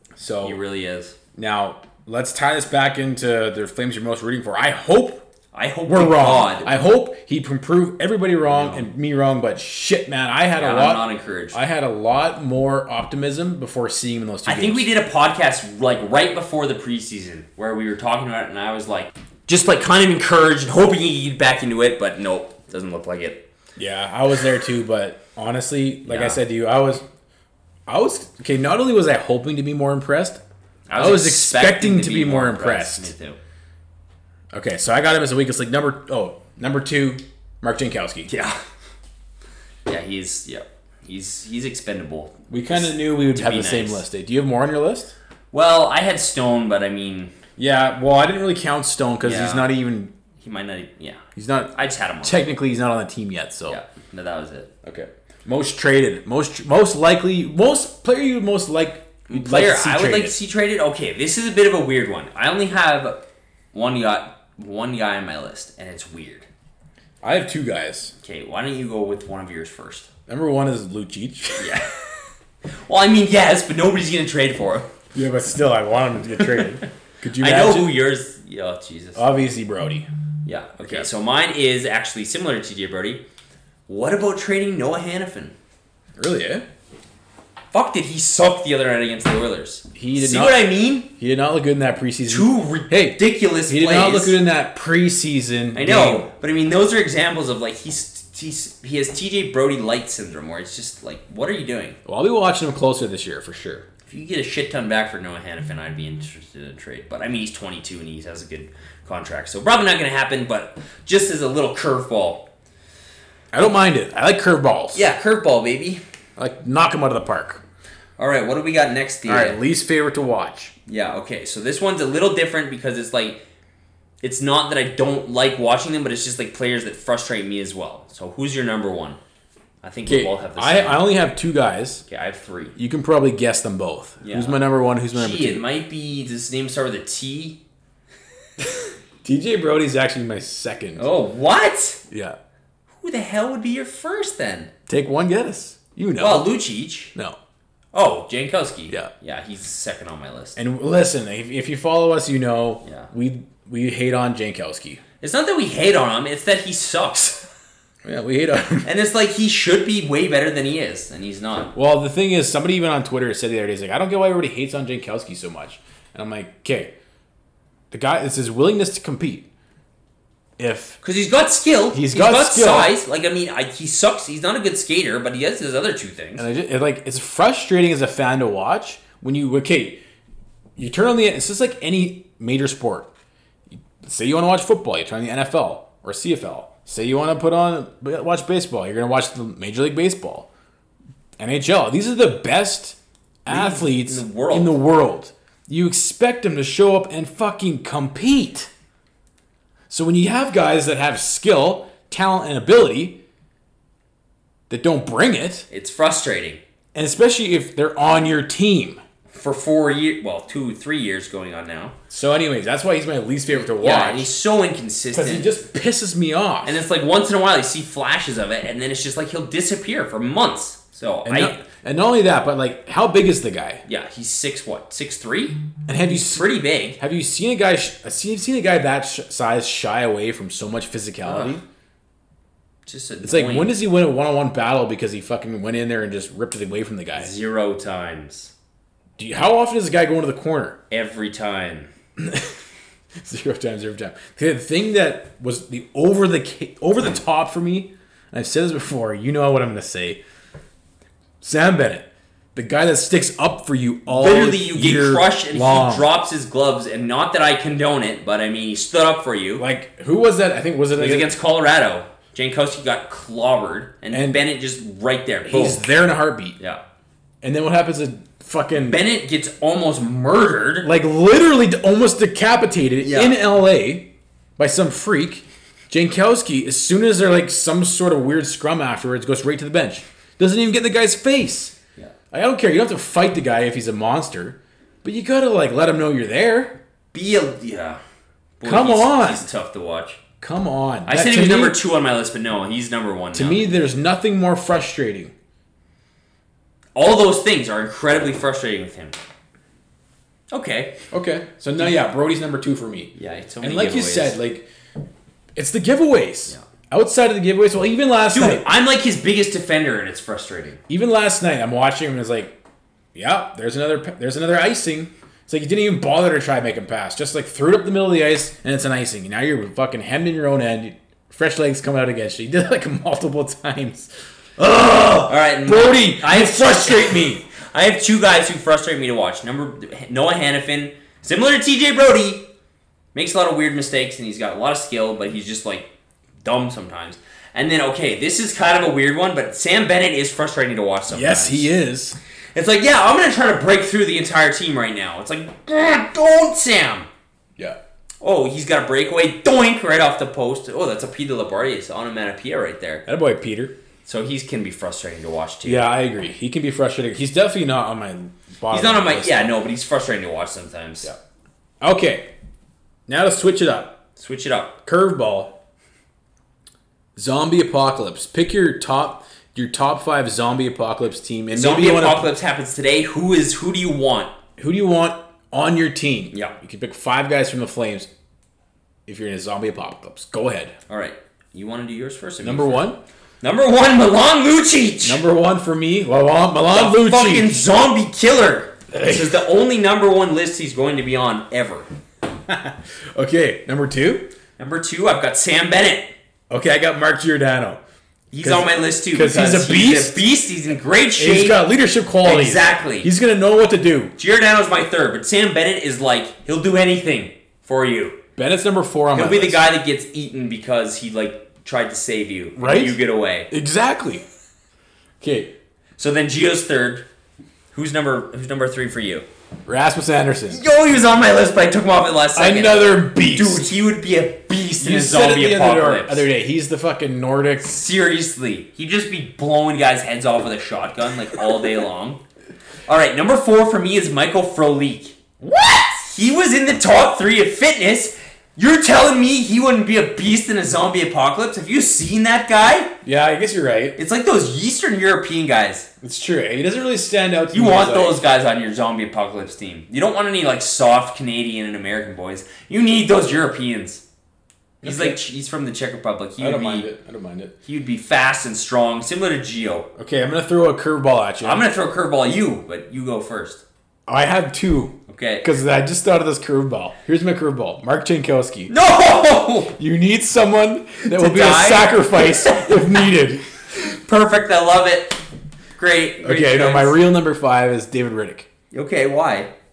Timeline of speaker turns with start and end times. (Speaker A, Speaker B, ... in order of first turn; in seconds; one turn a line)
Speaker A: 0.2-0.6
Speaker B: 0.4-1.2
Speaker A: 1.4-5.2
Speaker B: 5.5-6.8
Speaker A: 5.9-14.9
Speaker B: 8.5-8.9
Speaker B: 10.6-11.6
Speaker B: 14.4-23.4
Speaker A: 23.8-27.0
Speaker B: 26.1-26.4
Speaker A: 27.9-30.4
Speaker B: 30.9-33.4
Speaker A: 31.0-33.1
Speaker A: 34.5-38.3
Speaker B: 38.3-38.6
Speaker B: 39.9-44.0
Speaker A: 42.5-45.1
Speaker B: 45.5-47.4
Speaker A: 47.6-50.1
Speaker B: 49.2-49.7
Speaker B: 50.4-51.2
Speaker A: 51.4-53.8
Speaker B: 51.7-52.4
Speaker B: 53.7-54.7
Speaker A: 54.8-60.4
Speaker B: 59.3-63.2
Speaker B: 63.7-66.5
Speaker A: 67.2-68.1
Speaker B: 68.2-70.1
Speaker A: 70.3-71.8
Speaker B: 71.6-72.2
Speaker B: 72.8-74.9
Speaker A: 75.1-78.0
Speaker B: 76.4-76.7
Speaker B: 77.4-79.2
Speaker A: 79.2-80.1
Speaker B: 80.5-83.2
Speaker A: 80.8-81.1
Speaker B: 83.9-85.5
Speaker A: 86.2-86.7
Speaker B: 87.7-91.1
Speaker A: 89.9-96.3
Speaker B: 92.3-94.4
Speaker B: 95.8-102.0
Speaker A: 102.1-103.9
Speaker B: 104.1-112.5
Speaker A: 113.5-115.1
Speaker B: 114.9-116.0
Speaker A: 116.4-117.6
Speaker B: 118.2-119.6
Speaker A: 119.3-120.7
Speaker B: 120.9-123.4
Speaker B: 124.2-129.2
Speaker B: 129.8-131.1
Speaker A: 130.1-132.0
Speaker B: 132.1-132.8
Speaker A: 132.8-135.6
Speaker B: 134.2-137.6
Speaker A: 139.2-141.1
Speaker B: 141.0-142.0
Speaker A: 142.1-142.4
Speaker B: 143.0-144.7
Speaker A: 144.9-146.5
Speaker B: 146.2-147.1
Speaker B: 147.9-150.6
Speaker A: 150.6-155.0
Speaker B: 152.8-153.1
Speaker B: 155.2-157.5
Speaker A: 158.0-158.9
Speaker B: 158.8-161.7
Speaker A: 161.8-166.9
Speaker A: 167.9-169.5
Speaker A: 170.6-171.0
Speaker B: 171.0-176.5
Speaker A: 171.9-172.9
Speaker A: 176.4-180.0
Speaker A: 180.8-183.1
Speaker A: 184.0-190.5
Speaker A: 191.4-198.7
Speaker B: 193.5-194.8
Speaker A: 199.9-203.2
Speaker A: 204.7-205.7
Speaker B: 205.7-206.6
Speaker A: 206.9-209.0
Speaker B: 209.3-211.9
Speaker A: 212.1-214.3
Speaker B: 213.5-215.5
Speaker A: 215.1-216.8
Speaker B: 216.6-221.6
Speaker A: 221.2-223.8
Speaker B: 223.9-227.0
Speaker A: 225.9-231.6
Speaker B: 231.2-231.6
Speaker B: 232.9-233.8
Speaker A: 233.2-237.3
Speaker B: 237.2-238.5
Speaker A: 239.2-240.8
Speaker B: 240.9-241.9
Speaker A: 242.2-242.6
Speaker A: 243.2-250.2
Speaker A: 251.4-256.2
Speaker B: 254.1-259.6
Speaker A: 259.6-261.3
Speaker B: 261.0-265.8
Speaker A: 264.1-264.4
Speaker A: 265.5-266.6
Speaker A: 267.4-269.0
Speaker B: 268.8-270.9
Speaker A: 270.8-281.8
Speaker B: 273.0-273.4
Speaker A: 282.3-286.8
Speaker B: 287.1-288.0
Speaker B: 288.6-290.2
Speaker A: 288.6-289.5
Speaker A: 290.4-291.8
Speaker B: 291.1-293.7
Speaker A: 293.3-295.3
Speaker B: 297.0-299.2
Speaker B: 300.5-301.0
Speaker A: 301.1-304.7
Speaker B: 303.1-304.4
Speaker A: 305.6-308.6
Speaker B: 308.3-310.8
Speaker A: 310.9-312.6
Speaker A: 313.1-327.4
Speaker B: 325.3-332.5
Speaker B: 333.1-335.9
Speaker B: 336.4-341.7
Speaker A: 341.1-342.2
Speaker B: 342.6-347.1
Speaker B: 348.2-353.1
Speaker A: 353.1-353.8
Speaker B: 354.1-355.9
Speaker A: 355.6-359.5
Speaker B: 358.7-361.1
Speaker A: 361.8-362.3
Speaker A: 363.1-364.0
Speaker B: 364.2-364.8
Speaker A: 364.9-365.6
Speaker A: 367.2-372.3
Speaker B: 371.5-374.3
Speaker A: 374.6-378.1
Speaker A: 379.1-380.8
Speaker B: 380.9-382.9
Speaker A: 382.4-383.0
Speaker B: 383.4-385.2
Speaker A: 385.0-387.7
Speaker B: 386.7-391.9
Speaker A: 388.9-389.4
Speaker A: 392.5-394.3
Speaker B: 394.6-396.1
Speaker A: 396.5-397.8
Speaker B: 398.3-401.6
Speaker A: 398.4-400.3
Speaker A: 401.2-404.1
Speaker B: 402.2-403.1
Speaker B: 404.2-408.2
Speaker A: 408.4-409.7
Speaker B: 409.1-413.5
Speaker A: 412.6-414.2
Speaker A: 415.2-415.5
Speaker B: 416.0-417.1
Speaker B: 417.7-419.3
Speaker A: 419.7-420.6
Speaker B: 420.5-426.3
Speaker A: 422.4-423.7
Speaker A: 424.8-427.8
Speaker B: 427.6-432.2
Speaker B: 432.9-435.2
Speaker A: 435.4-435.8
Speaker B: 435.8-443.0
Speaker A: 443.0-444.0
Speaker B: 444.0-445.9
Speaker A: 446.0-448.2
Speaker B: 447.5-454.0
Speaker A: 454.8-455.2
Speaker B: 454.8-456.9
Speaker A: 456.4-457.6
Speaker B: 457.6-459.9
Speaker A: 460.0-461.6
Speaker B: 461.4-463.6
Speaker A: 464.1-468.7
Speaker B: 465.1-465.5
Speaker B: 468.7-469.7
Speaker A: 469.8-473.4
Speaker B: 471.0-473.0
Speaker B: 473.7-475.2
Speaker B: 475.8-477.0
Speaker A: 476.2-478.5
Speaker B: 478.7-479.5